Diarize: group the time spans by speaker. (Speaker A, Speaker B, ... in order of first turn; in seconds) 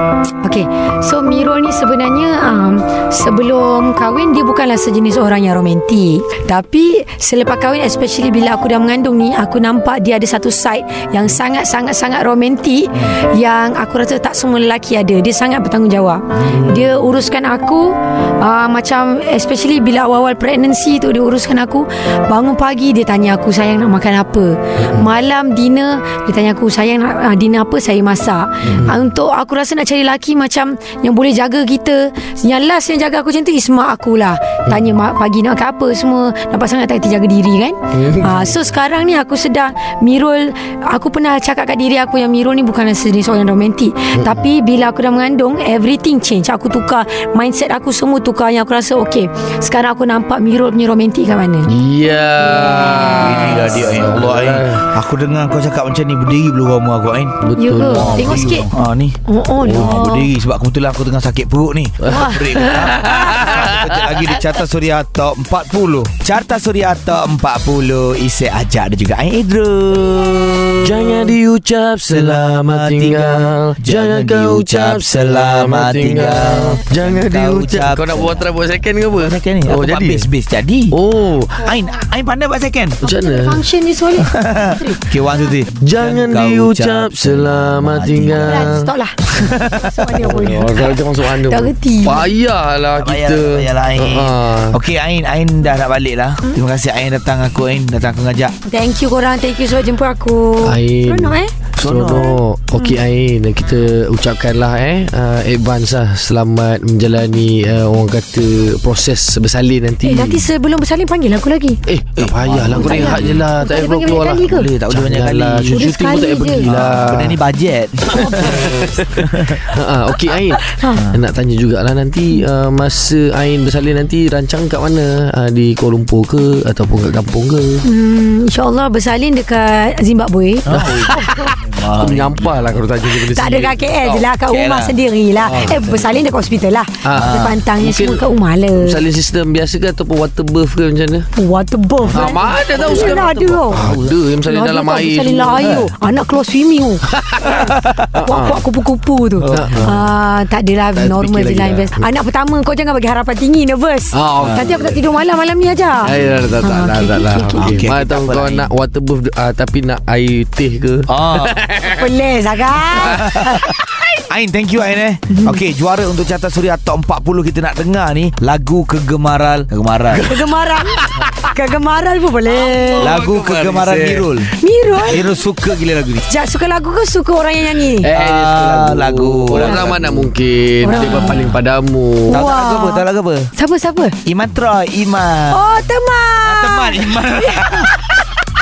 Speaker A: 0.4-51.7, 52.4-54.0, 57.6-58.7, 59.3-60.3, 62.0-63.7, 83.0-85.1, 88.3-92.3, 98.7-101.5, 110.0-111.8, 112.7-114.7, 115.7-116.7, 118.1-119.0, 120.6-121.1, 127.8-131.5, 133.1-139.0, 141.3-143.9, 144.5-157.8, 161.8-164.1, 165.3-165.6, 170.2-173.2, 174.6-175.3, 176.3-178.1, 179.6-179.9, 180.8-181.5, 182.3-183.1, 183.6-184.2, 185.5-188.0
Speaker B: 16.4-16.6, 53.1-59.2, 59.7-71.3, 72.1-78.5, 79.1-81.0, 81.6-83.0, 84.2-90.4, 93.0-98.6, 101.8-102.4, 112.2-113.5, 114.1-115.9, 116.6-119.6, 121.0-121.2, 130.7-132.7, 134.5-135.0, 137.2-137.6, 142.1-142.9, 143.7-144.2, 147.6-148.1, 149.4-150.0, 154.4-154.8, 156.2-156.6, 157.6-158.7, 161.1-161.6, 163.0-170.3, 173.0-176.2, 178.2-180.3, 180.8-181.5, 182.3-183.5, 184.3-185.8, 186.4-188.2
Speaker C: 16.5-16.8, 24.8-25.1, 28.6-29.0, 37.9-38.6, 44.1-44.5, 51.7-54.9, 57.4-58.6, 59.6-60.0, 62.0-64.3, 70.8-80.3, 80.9-81.7, 83.0-83.7, 85.8-88.9, 90.2-94.8, 100.6-110.5, 111.9-117.4, 118.1-127.8, 130.7-134.3, 135.4-136.2, 137.1-138.2, 138.8-141.3, 142.1-145.9, 147.1-148.6, 149.5-150.0, 151.0-152.1, 154.1-155.0, 156.0-162.1, 162.9-163.3, 170.1-171.5, 172.5-174.3, 178.0-182.4